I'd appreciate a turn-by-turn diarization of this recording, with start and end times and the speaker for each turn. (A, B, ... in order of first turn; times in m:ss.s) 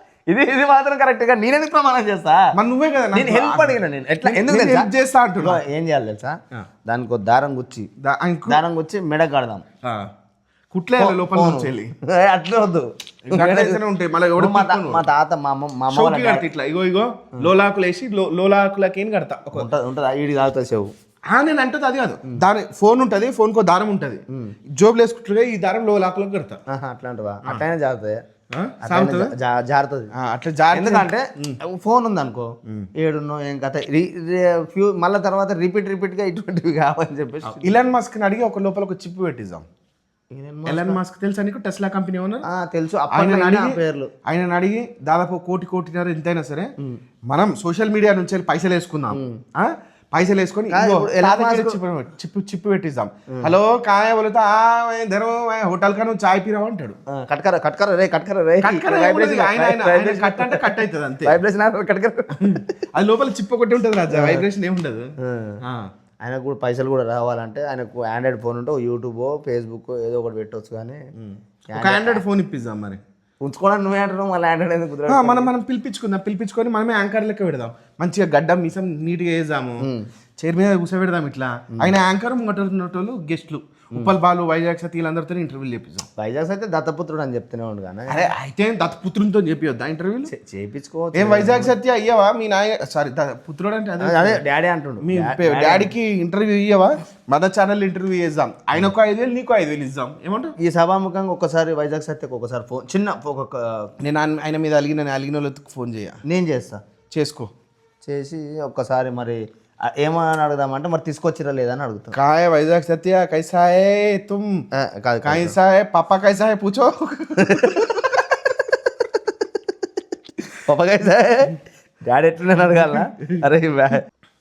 0:00.3-0:02.5 A
0:02.5-0:05.6 B
0:03.1-0:07.9 A
0:08.0-0:08.6 B
0:08.5-0:09.6 A
0:09.8-0:10.1 B
0:10.7-0:11.9 B
0:11.0-0:13.8 A
0:13.3-0:15.0 B
0:14.4-0:16.4 A
0:15.9-0:19.7 B
0:19.5-0:20.9 A
0:21.3-0:24.2 B
0:24.8-0:26.6 B
0:26.7-0:28.2 A
0:28.5-0:29.3 B
0:28.8-0:30.1 A
0:30.1-0:31.6 B
0:30.7-0:37.8 A
0:37.5-0:39.6 B
0:40.3-0:41.0 A
0:40.6-0:42.5 B
0:42.5-0:44.1 A
0:43.1-0:46.7 B
0:47.3-0:57.0 B
0:49.1-0:49.4 A
0:50.7-0:51.8 A
0:57.1-1:02.6 A
0:58.6-1:01.3 B
1:02.4-1:05.8 B
1:04.1-1:04.4 A
1:05.2-1:05.6 A
1:06.2-1:11.0 A
1:11.2-1:13.0 B
1:11.7-1:12.2 A
1:13.4-1:15.5 A
1:15.1-1:19.9 B
1:20.4-1:26.1 B
1:26.2-1:28.2 A
1:28.1-1:30.3 B
1:30.3-1:31.7 A
1:31.1-1:34.4 B
1:34.0-1:35.9 A
1:35.0-1:40.5 B
1:40.6-1:43.9 A
1:44.0-1:46.2 B
1:46.2-1:46.8 A
1:47.1-1:47.5 B
1:48.0-1:52.2 A
1:52.1-1:54.6 B
1:54.8-1:55.6 A
1:55.2-1:57.9 B
1:57.4-1:57.9 A
2:00.6-2:04.0 A